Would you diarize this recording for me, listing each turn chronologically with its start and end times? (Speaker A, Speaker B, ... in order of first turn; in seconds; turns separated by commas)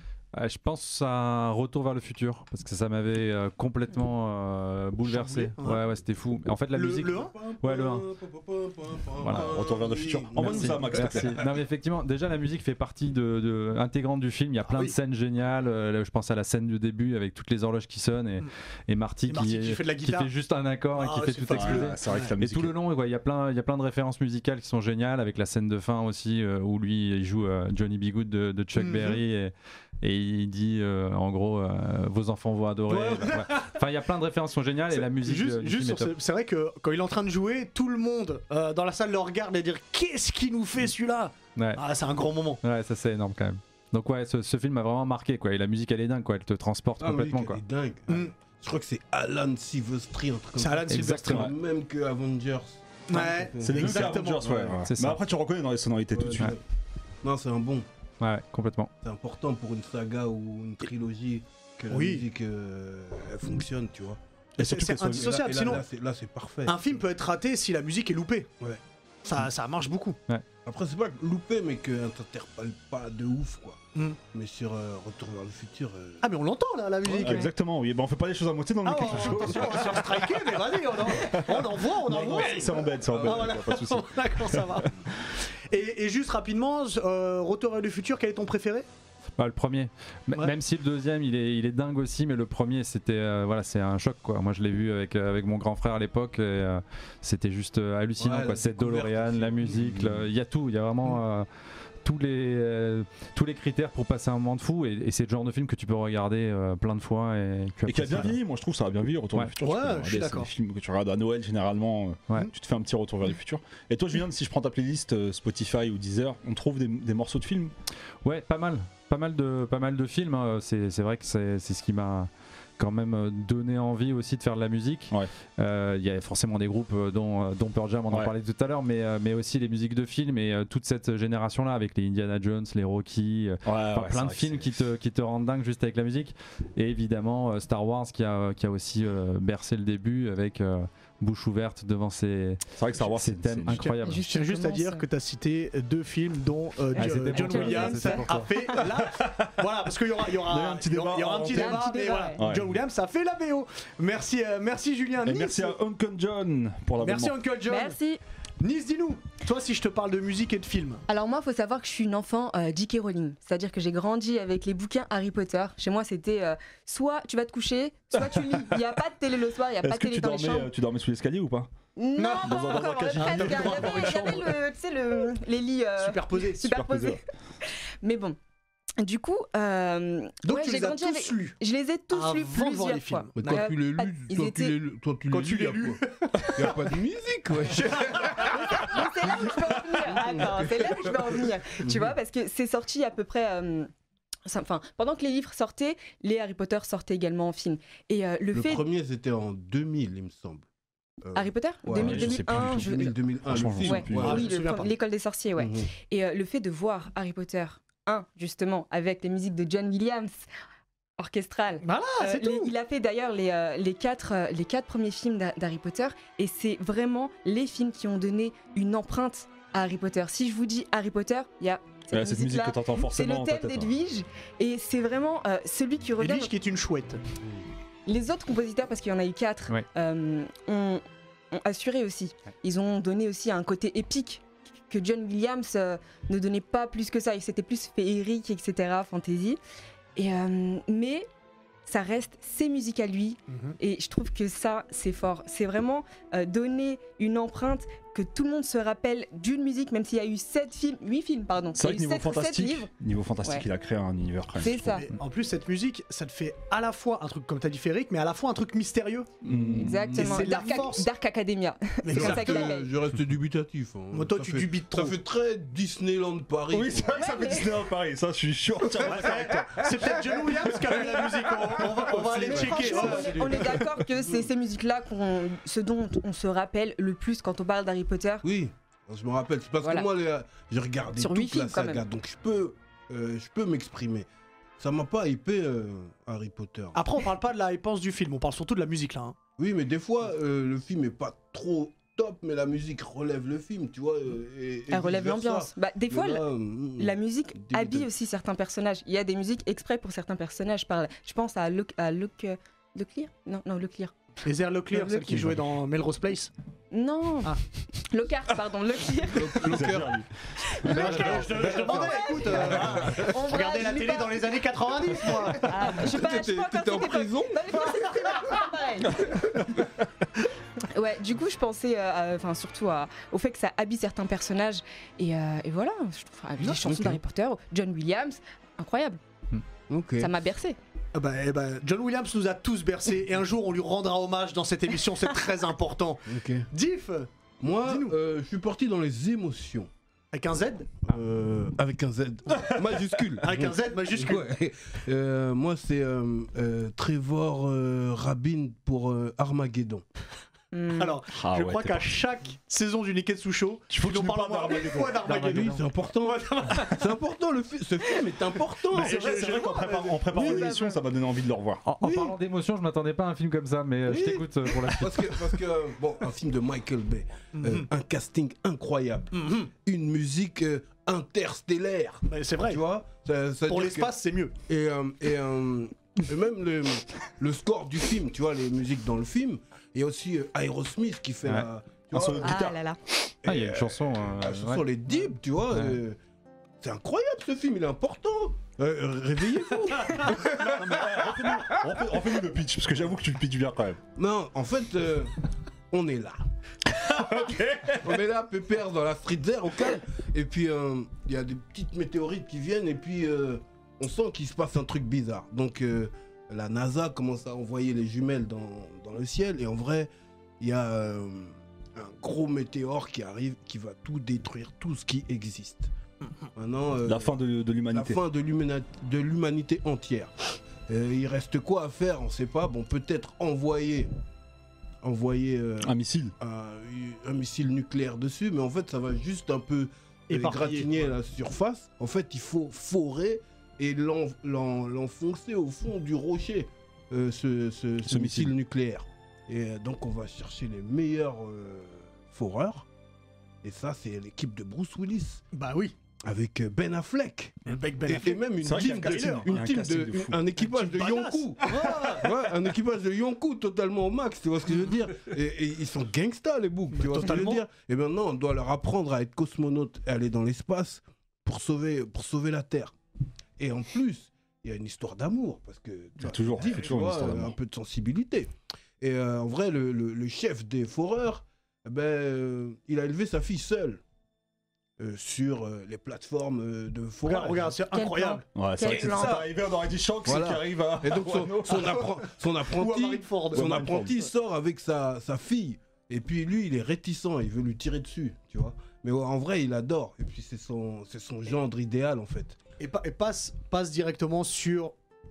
Speaker A: 0.3-8.1, Speaker B: 5.0-5.8, Speaker B: 6.7-7.3, Speaker C: 7.3-11.5, Speaker A: 9.2-9.5, Speaker D: 9.3-11.3, Speaker A: 10.4-36.1, Speaker B: 14.7-15.0, Speaker B: 19.3-20.3, Speaker B: 20.9-22.3, Speaker D: 21.5-22.8, Speaker B: 28.8-29.2, Speaker B: 32.9-33.7, Speaker B: 34.9-42.6, Speaker A: 41.6-41.8, Speaker A: 42.6-47.6, Speaker C: 47.0-54.8, Speaker B: 50.6-51.5, Speaker A: 50.9-51.5, Speaker B: 53.1-54.7, Speaker D: 53.6-56.6, Speaker A: 54.8-55.2, Speaker C: 56.1-56.6, Speaker C: 57.2-57.9, Speaker A: 58.2-58.9, Speaker C: 59.0-64.2, Speaker B: 61.9-62.3, Speaker B: 64.6-65.9, Speaker D: 64.6-65.8, Speaker C: 65.1-66.9, Speaker B: 66.7-68.5, Speaker B: 69.2-70.2, Speaker C: 70.7-73.8, Speaker C: 74.3-76.2, Speaker B: 76.2-77.5, Speaker D: 77.1-80.4, Speaker B: 78.8-88.9, Speaker D: 81.1-84.9, Speaker C: 82.1-83.5, Speaker A: 89.4-101.5, Speaker C: 98.2-100.2, Speaker A: 102.0-108.4, Speaker D: 107.9-117.7, Speaker B: 109.6-110.5, Speaker A: 118.2-144.2, Speaker D: 133.7-134.7, Speaker D: 142.7-143.9, Speaker B: 143.8-155.8, Speaker E: 144.0-145.1, Speaker E: 146.9-148.8, Speaker A: 147.0-148.5, Speaker D: 149.0-149.5, Speaker D: 150.4-152.8, Speaker E: 151.5-152.4, Speaker D: 155.2-157.4, Speaker B: 157.0-158.0, Speaker E: 157.7-158.2, Speaker B: 158.6-161.0, Speaker E: 161.1-170.7, Speaker D: 168.2-168.8, Speaker D: 169.8-171.7, Speaker E: 172.0-177.2, Speaker B: 172.2-174.6, Speaker D: 172.4-174.4, Speaker B: 176.0-176.6, Speaker D: 176.6-177.2, Speaker E: 178.0-178.4, Speaker E: 179.0-184.8, Speaker B: 180.4-181.6, Speaker B: 182.1-183.7, Speaker C: 183.4-191.2, Speaker B: 185.3-186.9, Speaker B: 187.9-188.9, Speaker E: 188.4-193.9, Speaker C: 191.8-192.2, Speaker E: 194.5-198.8, Speaker C: 198.5-200.7, Speaker C: 201.2-204.5, Speaker E: 201.3-203.2, Speaker D: 201.9-204.4, Speaker E: 203.8-210.5, Speaker B: 204.2-204.9, Speaker C: 205.6-205.9, Speaker E: 211.2-226.5, Speaker B: 211.8-212.7, Speaker D: 222.1-223.9, Speaker B: 226.2-227.2, Speaker E: 228.1-239.6, Speaker E: 240.2-241.3, Speaker E: 241.9-252.9, Speaker B: 243.5-243.8, Speaker D: 251.8-254.9, Speaker E: 254.6-255.1, Speaker B: 254.8-259.3, Speaker D: 259.4-260.1, Speaker C: 259.7-260.6, Speaker E: 259.8-262.9, Speaker B: 260.1-261.1, Speaker B: 262.0-262.7, Speaker C: 262.1-267.1, Speaker B: 264.1-265.2, Speaker D: 266.7-270.1, Speaker E: 267.1-267.7, Speaker B: 269.0-273.9, Speaker D: 271.8-272.4, Speaker E: 272.3-278.5, Speaker C: 272.4-273.5, Speaker C: 278.4-284.3, Speaker E: 279.8-280.1, Speaker E: 281.2-282.0, Speaker C: 284.8-287.0, Speaker B: 286.9-289.4, Speaker C: 289.6-298.1, Speaker E: 294.9-304.1, Speaker B: 304.4-306.5, Speaker C: 304.9-305.3, Speaker E: 306.9-309.8, Speaker C: 309.3-310.2, Speaker D: 309.6-313.1, Speaker E: 310.8-311.1, Speaker B: 310.9-316.0, Speaker E: 311.7-314.6, Speaker C: 312.8-313.3, Speaker E: 315.5-319.3, Speaker C: 315.9-317.9, Speaker B: 317.9-318.6, Speaker E: 320.8-329.2, Speaker C: 326.6-327.2, Speaker C: 329.9-330.3, Speaker E: 330.2-330.8, Speaker B: 331.1-338.2, Speaker C: 336.3-336.7, Speaker C: 337.6-339.9, Speaker B: 340.3-341.0, Speaker C: 341.0-350.1, Speaker B: 343.4-344.5, Speaker E: 350.7-351.2, Speaker B: 350.9-357.1, Speaker D: 351.3-352.1, Speaker D: 353.9-355.7, Speaker C: 355.4-359.3, Speaker B: 358.9-360.7, Speaker D: 358.9-361.8, Speaker E: 360.4-361.0, Speaker A: 361.9-365.5, Speaker C: 362.0-362.4, Speaker C: 364.1-374.1, Speaker B: 367.6-367.9, Speaker B: 369.3-369.7, Speaker B: 372.3-372.8, Speaker B: 373.7-374.6, Speaker C: 374.7-382.6, Speaker D: 382.1-382.8, Speaker E: 382.4-383.0, Speaker C: 383.4-386.2, Speaker A: 383.4-384.8, Speaker A: 385.7-386.0, Speaker C: 386.8-390.8, Speaker D: 390.6-394.0, Speaker C: 394.2-395.3, Speaker C: 395.9-396.4, Speaker D: 397.0-398.1, Speaker C: 397.9-415.9, Speaker C: 416.6-417.3, Speaker D: 417.0-418.2, Speaker C: 417.9-420.3, Speaker C: 420.9-424.1, Speaker C: 425.0-442.9, Speaker D: 425.8-426.3, Speaker B: 430.3-430.9, Speaker D: 438.1-438.5, Speaker C: 443.6-445.4, Speaker B: 445.5-446.0, Speaker C: 446.2-462.9, Speaker B: 447.7-449.6, Speaker D: 448.6-450.4, Speaker B: 450.6-452.4, Speaker B: 456.9-457.6, Speaker C: 463.6-468.5, Speaker D: 466.2-467.6, Speaker C: 469.0-474.0, Speaker C: 475.0-477.8, Speaker B: 477.2-478.4, Speaker E: 477.9-479.4, Speaker D: 478.6-482.1, Speaker C: 480.3-492.6, Speaker B: 482.6-484.0, Speaker D: 483.5-484.2, Speaker B: 492.8-494.9